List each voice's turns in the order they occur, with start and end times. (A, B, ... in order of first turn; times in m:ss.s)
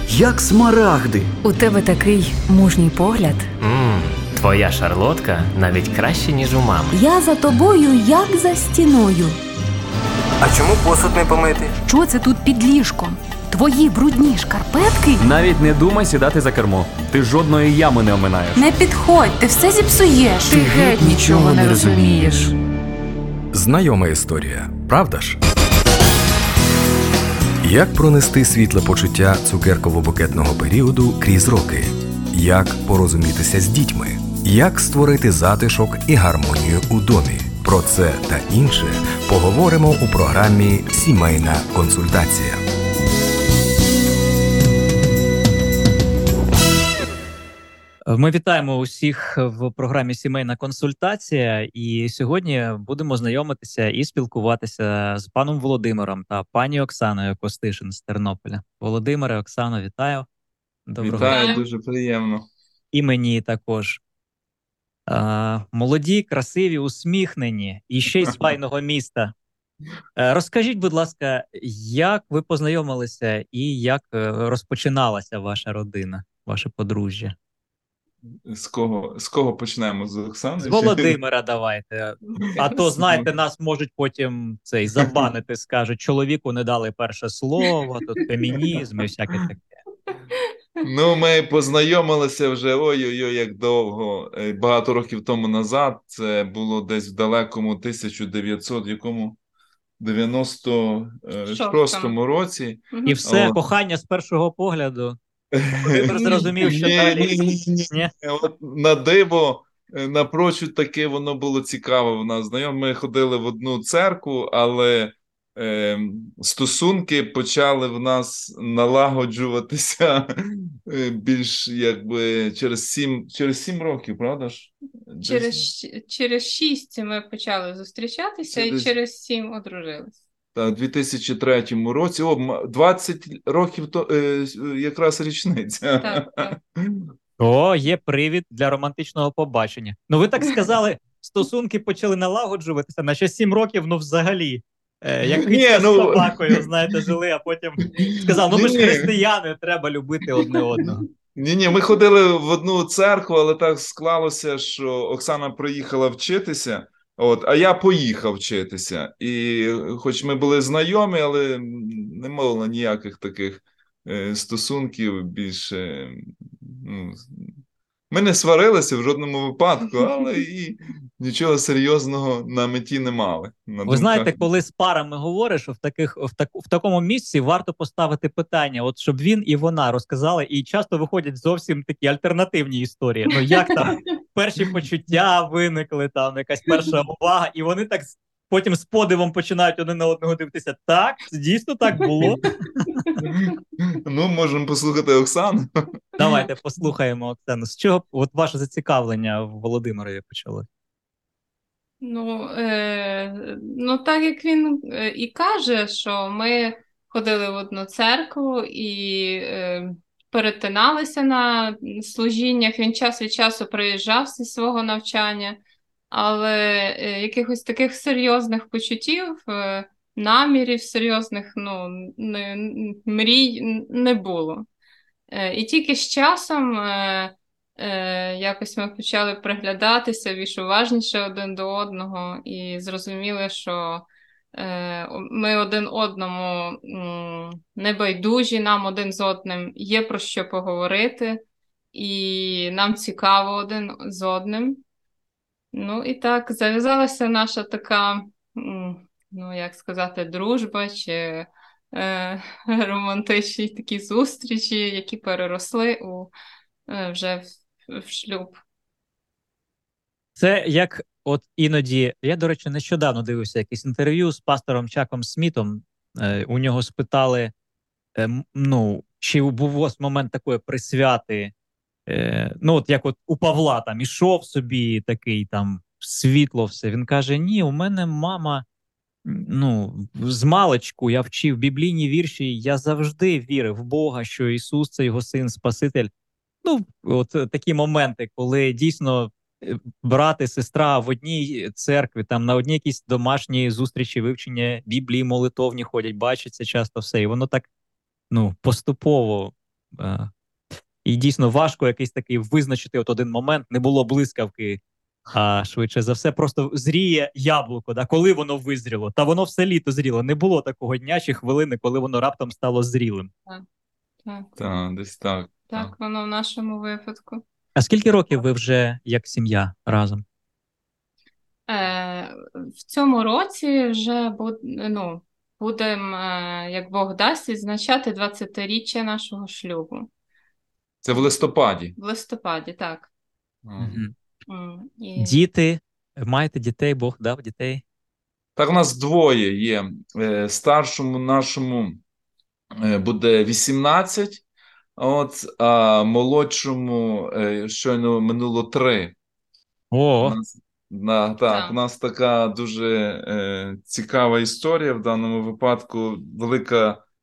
0:01.4-0:03.5 A
0:03.6-0:04.2 B
0:04.3-0:07.0 C
0:06.9-0:09.4 A
0:10.4-0:11.8 B
0:11.8-0:15.2 A
0:15.2-0:18.6 D
0:18.5-0:22.5 A
0:20.5-0:22.3 D
0:23.5-0:25.4 E
0:27.6-0:42.6 E
0:48.1-1:00.3 F
1:00.9-1:01.4 F
1:01.0-1:02.5 G
1:01.3-1:01.6 H
1:02.9-1:04.0 F
1:05.1-1:09.3 F
1:10.2-1:17.3 F
1:18.4-1:21.1 G
1:20.6-1:29.8 F
1:22.5-1:23.3 G
1:30.8-1:39.4 G
1:40.0-1:43.6 G
1:41.4-1:42.1 H
1:42.9-1:43.2 H
1:43.1-1:45.2 F
1:45.5-2:05.6 G
1:45.8-1:48.1 F
1:46.0-1:46.7 H
2:05.2-2:10.2 H
2:08.5-2:08.9 G
2:10.5-2:17.1 G
2:16.0-2:16.6 H
2:17.4-2:31.1 F
2:25.2-2:26.7 G
2:27.9-2:29.2 G
2:30.3-2:47.5 G
2:48.1-2:54.4 G
2:53.8-3:13.2 F
3:13.2-3:15.9 G
3:16.2-3:20.6 F
3:22.0-3:35.6 H
3:36.1-3:44.6 H
3:45.3-4:01.4 H
4:01.9-4:04.8 H
4:05.7-4:16.3 H
4:16.9-4:18.6 H
4:20.4-4:27.5 F
4:28.2-4:31.5 F
4:32.1-4:38.6 F
4:39.2-4:46.1 F
4:46.6-4:57.6 F
4:58.3-5:00.3 F
5:01.0-5:04.8 F
5:05.3-5:13.3 F
5:14.2-5:14.6 H
5:14.6-5:15.9 G
5:15.7-5:17.4 H
5:17.8-5:20.2 F
5:21.7-5:30.1 H
5:31.0-5:31.9 G
5:31.1-5:31.3 H
5:32.0-5:33.1 H
5:33.6-5:34.0 G
5:33.8-5:34.1 F
5:34.5-5:35.4 H
5:35.2-5:37.8 F
5:38.6-5:42.0 G
5:42.8-5:44.4 G
5:45.0-5:49.1 G
5:49.9-5:50.4 F
5:50.2-5:57.0 G
5:51.5-5:51.8 H